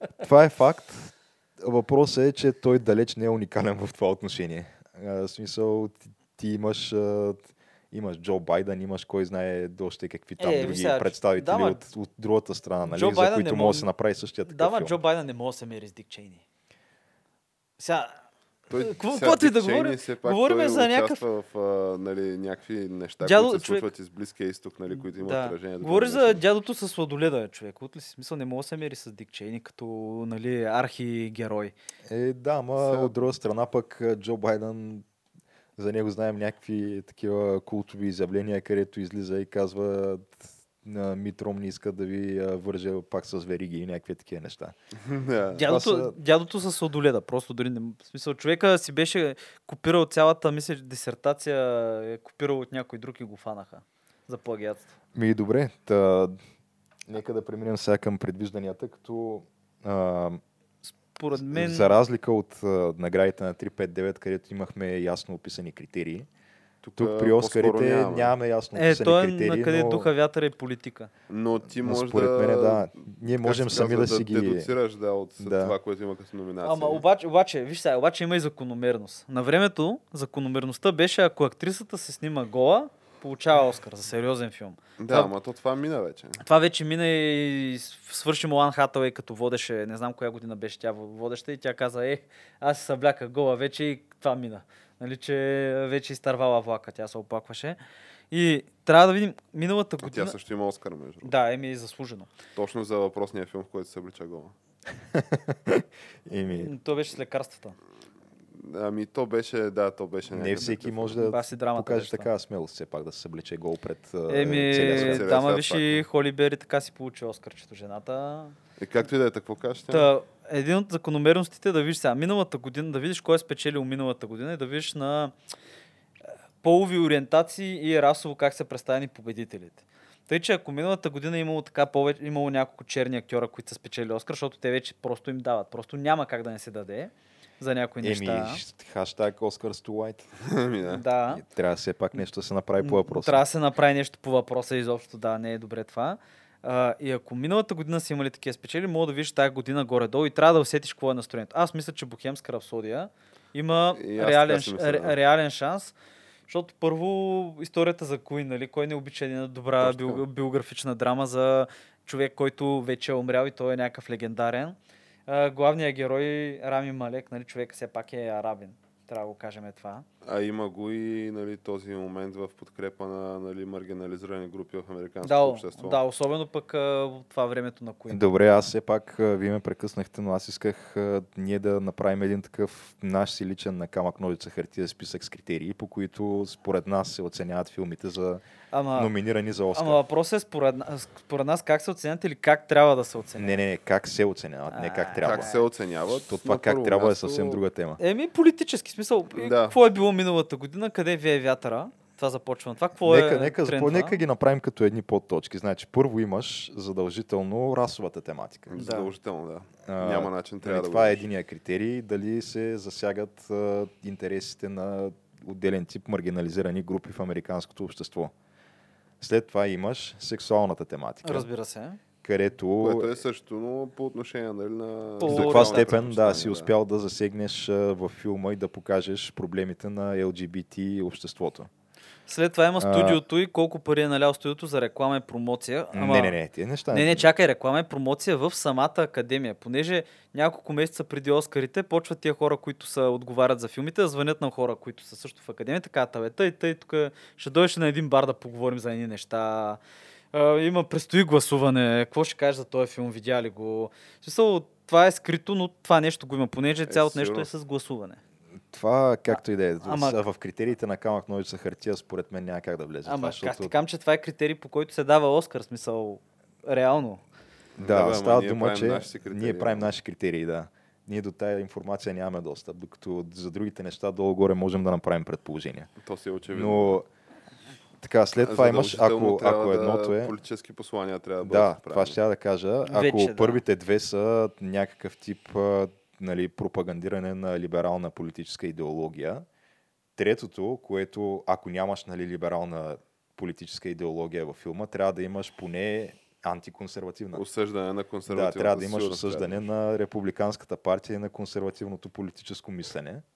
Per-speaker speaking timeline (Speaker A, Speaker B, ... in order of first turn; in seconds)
Speaker A: 0.2-15.0, 32.1-35.0, 35.8-44.8, 45.6-46.2, 55.1-56.4, 57.1-60.4, 61.4-66.3, 67.0-70.1, 71.8-74.7, 75.4-75.8, 105.1-106.7, 110.3-115.3, 138.0-140.3, 141.3-143.4, 178.1-188.4, 188.9-190.0, 193.4-195.5, 196.3-198.0, 203.0-208.8, 209.9-218.3, 219.2-221.5, 222.2-223.2, 225.2-231.7, 232.8-233.2, 235.9-237.3, 258.7-263.7, 267.8-275.9, 276.5-277.1, 278.0-280.3, 281.4-289.4, 290.2-297.4, 298.3-303.2
Speaker B: 10.4-11.8, 12.8-13.9, 14.5-16.4, 17.8-18.2, 18.8-21.2, 23.2-23.9, 24.9-31.7, 45.5-54.9, 60.9-62.0, 68.8-71.1, 76.6-85.3, 86.4-97.8, 98.3-100.3, 101.2-102.3, 106.5-107.8, 111.2-112.3, 114.3-118.5, 119.9-125.3, 126.6-138.6, 140.9-141.4, 142.8-155.9, 156.5-170.1, 175.2-178.7, 188.7-189.1, 189.7-193.6, 194.7-195.6, 198.0-204.2, 208.8-209.1, 221.2-222.0, 225.2-226.0, 232.3-236.4, 236.9-249.8, 250.3-258.2, 259.3-260.2, 263.1-267.2, 282.9-283.6
Speaker C: 18.7-26.4, 32.8-33.1, 45.0-45.6, 66.8-68.3, 71.3-77.0, 85.0-86.4, 100.0-101.3, 102.5-104.5, 108.5-111.2, 114.8-116.0, 118.8-120.1, 140.4-141.0, 153.9-155.2, 159.8-160.2, 170.2-176.0, 195.2-197.6, 199.3-199.8, 208.7-211.2, 222.8-226.7, 256.9-257.5, 267.8-269.9, 276.0-277.0, 278.4-282.2, 297.3-299.7